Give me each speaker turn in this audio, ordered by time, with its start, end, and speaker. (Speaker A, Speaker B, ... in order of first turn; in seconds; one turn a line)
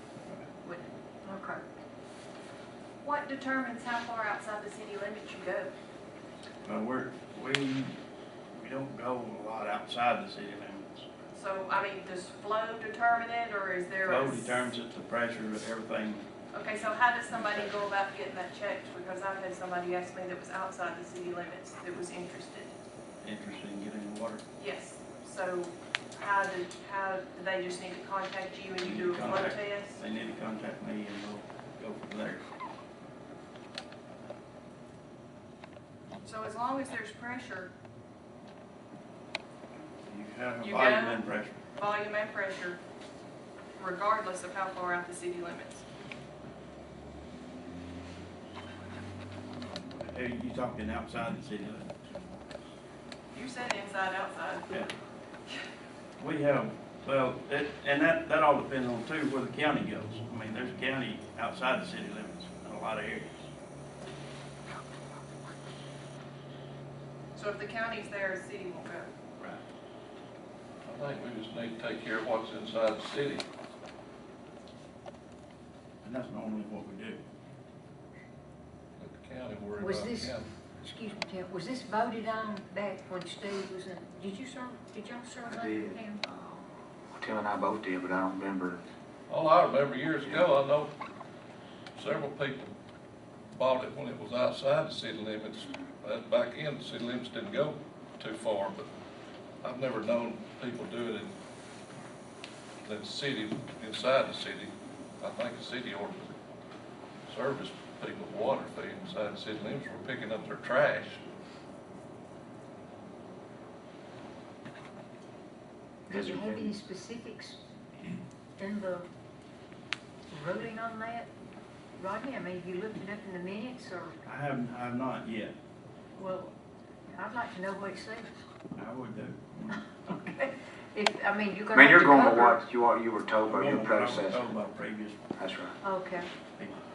Speaker A: 0.6-1.6
Speaker B: 3.0-5.7
Speaker C: 6.6-8.0
Speaker C: 8.5-11.1
Speaker B: 11.3-14.6
Speaker C: 14.0-16.3
Speaker B: 16.5-22.7
Speaker C: 17.4-17.7
Speaker C: 23.2-24.4
Speaker B: 24.6-29.9
Speaker C: 28.8-32.5
Speaker B: 36.2-37.7
Speaker C: 40.0-41.6
Speaker B: 40.6-42.8
Speaker B: 43.8-45.8
Speaker C: 49.9-51.9
Speaker B: 53.3-54.8
Speaker C: 56.2-63.4
Speaker B: 67.3-69.1
Speaker D: 70.8-73.4
Speaker C: 76.0-77.2
Speaker D: 79.0-80.5
Speaker A: 79.8-86.2
Speaker E: 85.4-88.8
Speaker D: 89.3-90.9
Speaker E: 90.2-90.5
Speaker D: 91.9-92.7
Speaker D: 93.5-98.9
Speaker D: 99.6-101.3
Speaker D: 102.8-106.3
Speaker D: 107.3-111.2
Speaker A: 116.1-117.6
Speaker E: 116.1-116.7
Speaker A: 118.6-119.1
Speaker A: 120.3-121.3
Speaker A: 122.0-124.2
Speaker C: 124.2-125.5
Speaker A: 126.2-126.5
Speaker A: 127.1-128.3
Speaker C: 128.8-129.9
Speaker A: 130.1-132.6
Speaker E: 131.7-134.5
Speaker C: 133.5-135.2
Speaker E: 135.4-135.8
Speaker A: 135.8-136.3